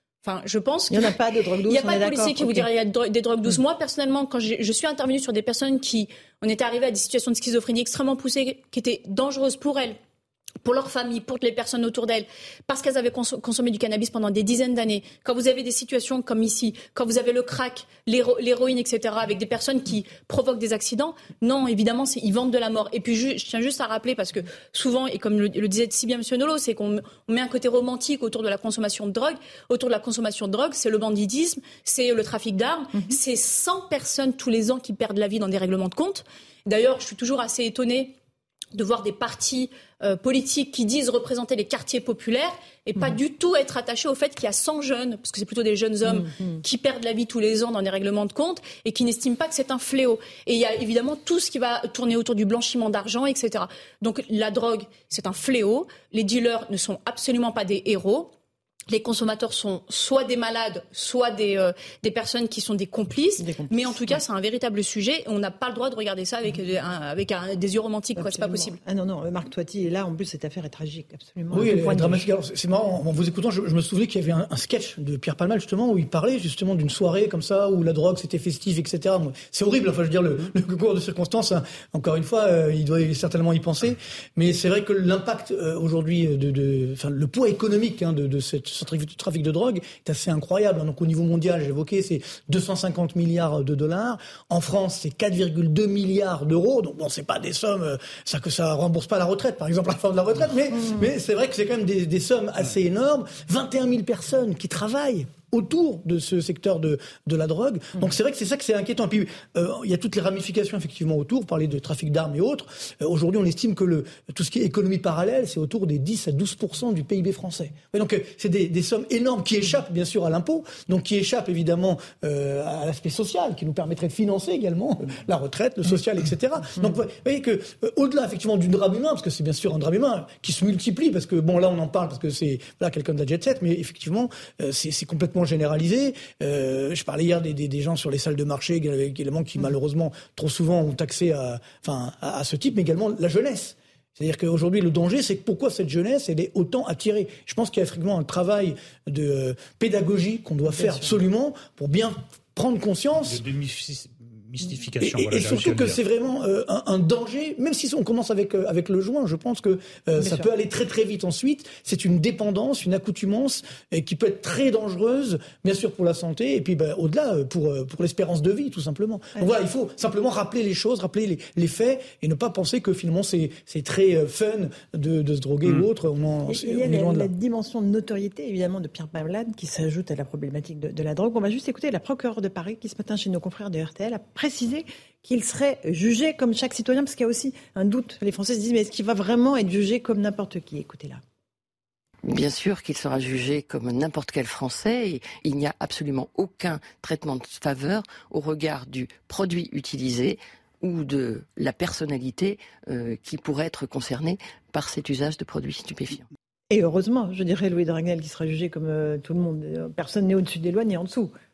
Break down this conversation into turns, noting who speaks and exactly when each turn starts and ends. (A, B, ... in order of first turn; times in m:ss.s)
0:00.2-0:01.1 A
0:00.9-0:02.7 B
0:01.7-0:10.0 A
0:10.6-0:38.1 A
0:38.7-0:58.3 A
0:46.0-0:46.6 B
0:58.9-1:08.8 A
1:03.4-1:04.2 B
1:08.2-1:12.3 B
1:11.5-2:33.4 C
1:40.8-1:41.1 B
2:30.8-2:31.2 B
2:33.3-2:36.0 D
2:35.0-2:57.3 C
2:40.2-2:40.5 B
2:56.5-3:11.2 B
3:12.2-3:26.2 E
3:26.7-3:31.3 B